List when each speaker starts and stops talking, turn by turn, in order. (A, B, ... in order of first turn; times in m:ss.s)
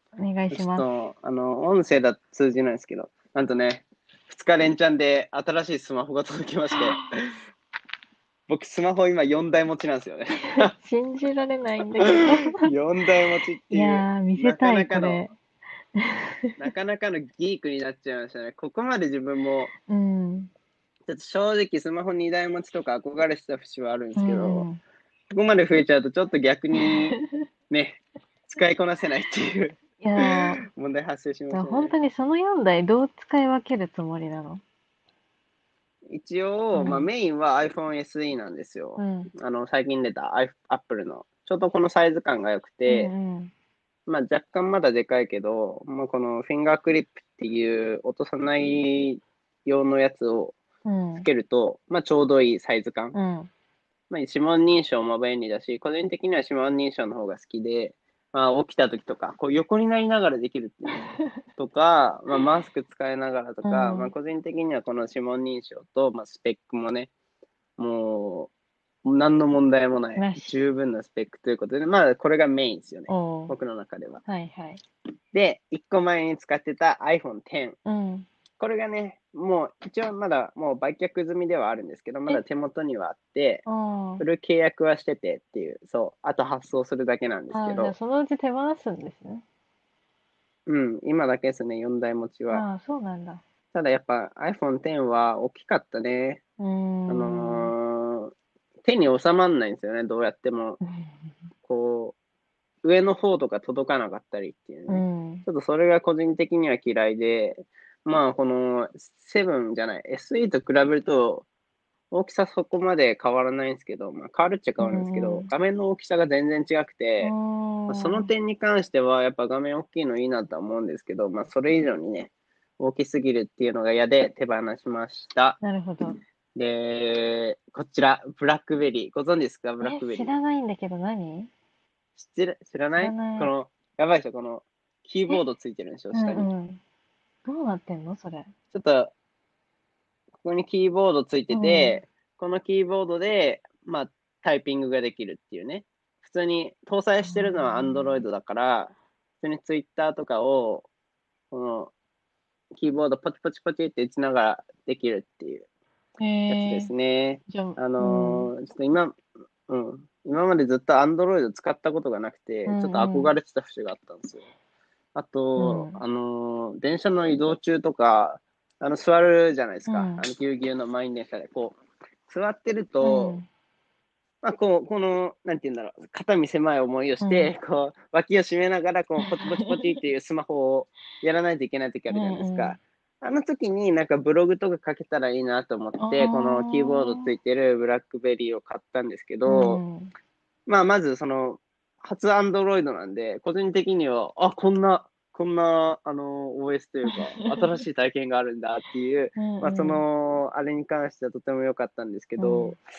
0:00.2-0:00.8 A
0:00.5-0:07.0 B
0:06.7-0:07.0 A
0:08.5-0:10.7 B
0:10.6-0:12.7 A
0:12.0-0:15.2 B
0:13.7-0:15.4 A
0:16.0-0:16.5 A
0:16.6-0:19.7 B
0:19.9-0:20.5 A
0:21.1-0:24.7 B
0:24.2-0:24.8 A
0:25.3-0:27.2 B
0:26.8-0:27.2 A
0:27.7-0:31.9 B
0:30.0-0:30.6 A
0:31.5-0:34.6 A
0:36.1-0:43.1 B
0:36.7-0:37.1 A
0:39.0-0:39.3 A
0:42.9-0:43.5 A
0:44.1-0:50.6 B
0:50.8-0:51.3 A
0:51.2-0:53.2 B
0:53.1-0:53.5 A
0:54.1-1:01.0 B
1:01.6-1:07.1 B
1:03.6-1:04.1 A
1:07.8-1:08.5 B
1:09.0-1:14.2 B
1:10.2-1:10.6 A
1:13.1-1:13.6 A
1:14.3-1:14.8 A
1:15.3-1:17.8 B
1:17.8-1:18.3 A
1:18.6-1:23.6 B
1:23.7-1:24.2 A
1:24.2-1:28.0 B
1:27.5-1:29.4 A
1:30.7-1:32.6 B
1:32.5-1:33.4 A
1:33.7-1:36.4 B
1:36.6-1:37.7 A
1:37.1-1:38.3 B
1:38.8-1:40.8 B
1:40.8-1:41.3 A
1:41.6-1:42.2 B
1:42.8-1:51.5 B
1:44.9-1:45.5 A
1:52.1-1:57.3 B
1:54.8-1:55.5 A
1:57.2-1:58.3 A
1:57.9-2:05.6 B
2:05.6-2:06.2 A
2:06.6-2:10.4 B
2:09.8-2:11.5 A
2:12.2-2:16.5 B
2:13.0-2:13.5 A
2:16.1-2:16.8 A
2:17.4-2:18.5 A
2:18.7-2:19.1 B
2:20.4-2:30.9 B
2:21.5-2:22.0 A
2:27.2-2:28.2 A
2:31.5-2:31.9 B
2:32.8-2:35.7 B
2:36.2-2:36.9 A
2:36.5-2:44.4 B
2:37.5-2:38.5 A
2:42.7-2:43.3 A
2:45.1-2:53.4 B
2:45.6-2:46.0 A
2:49.9-2:50.2 A
2:53.0-2:53.5 A
2:54.4-3:09.8 B
2:57.2-2:57.5 A
2:59.2-2:59.9 A
3:02.1-3:02.8 A
3:06.0-3:07.3 A
3:09.5-3:10.1 A
3:10.7-3:22.8 B
3:19.4-3:20.0 A
3:22.4-3:22.8 A